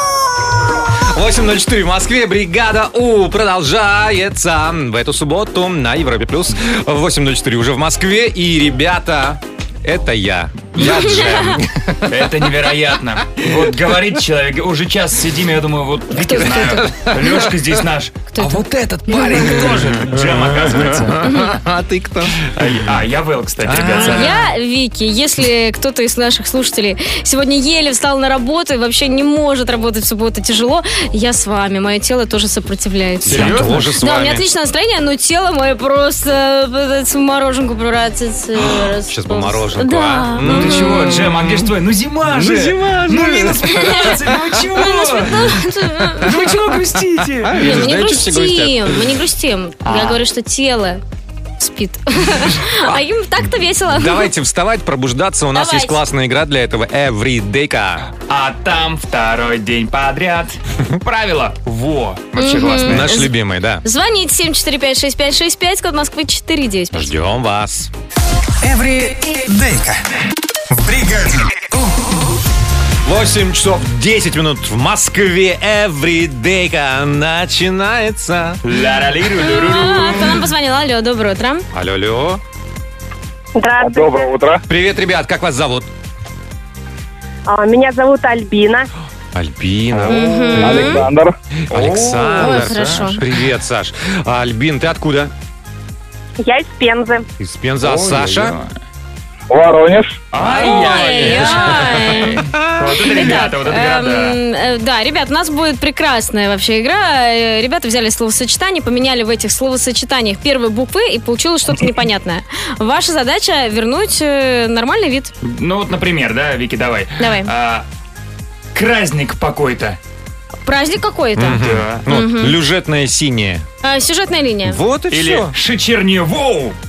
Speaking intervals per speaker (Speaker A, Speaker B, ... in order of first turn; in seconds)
Speaker A: 1.1-12.1, 16.6-17.4, 19.8-22.6, 23.6-24.4, 33.2-34.5, 39.0-41.7, 42.2-44.4, 46.1-46.7, 47.3-49.1, 53.9-58.0, 62.8-63.8, 66.9-67.9, 73.0-78.6, 81.7-82.4, 84.7-85.9, 89.3-91.1, 91.7-95.3, 97.4-98.5, 100.4-103.2, 121.4-123.7, 124.6-125.5
Speaker B: 10.8-11.6, 16.1-16.8, 18.3-19.7, 21.2-21.5, 23.9-41.1, 43.7-44.1, 44.7-46.3, 47.6-51.0, 51.6-54.3, 55.5-56.0, 62.4-63.3, 63.8-67.1, 79.4-81.7, 90.1-91.0, 92.4-93.2, 100.6-102.4, 103.1-115.3, 117.2-117.5, 120.6-122.5, 123.8-124.8
Speaker C: 12.1-21.2, 22.4-24.4, 33.2-33.8, 40.4-45.5, 46.2-47.9, 49.8-50.2, 58.2-63.1, 78.6-80.4, 91.7-92.9, 97.8-98.7, 100.3-104.4, 115.4-117.8, 118.7-120.0, 121.6-122.0, 125.1-126.8
Speaker D: 68.6-70.0, 70.7-71.6
Speaker E: 83.5-84.3, 87.5-88.9, 96.4-97.2
Speaker F: 83.8-84.6, 90.6-91.3, 99.5-100.2